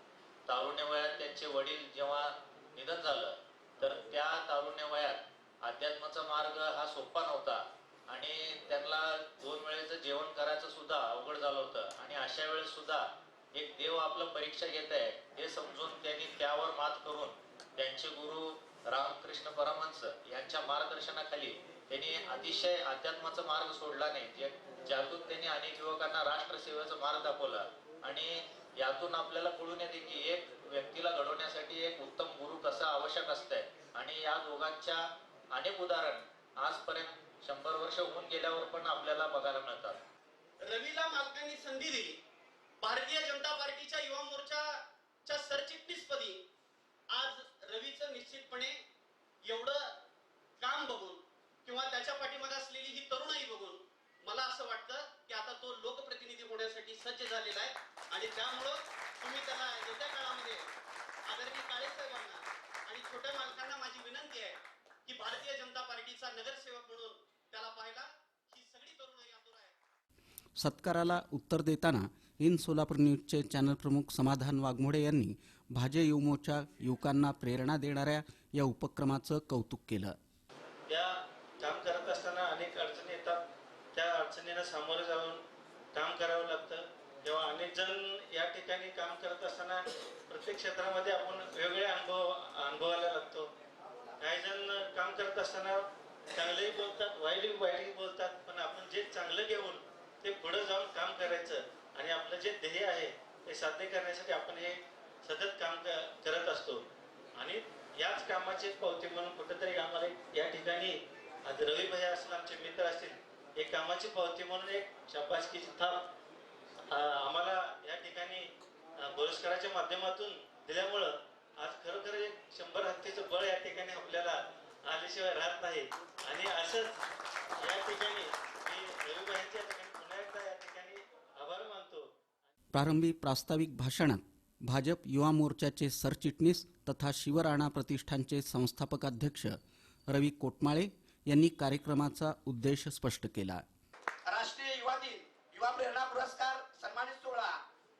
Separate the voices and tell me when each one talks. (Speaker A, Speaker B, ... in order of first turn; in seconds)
Speaker A: 0.5-40.0
Speaker B: 40.6-42.2, 42.8-44.7, 45.2-46.4, 47.1-48.8, 49.4-49.8, 50.6-60.7, 61.2-64.5, 65.1-69.7
Speaker C: 70.6-80.1, 132.7-139.6, 140.1-143.6
Speaker D: 80.9-83.4, 83.9-85.4, 85.9-93.5, 94.2-116.1, 116.9-127.0, 127.6-132.1
Speaker E: 144.2-147.6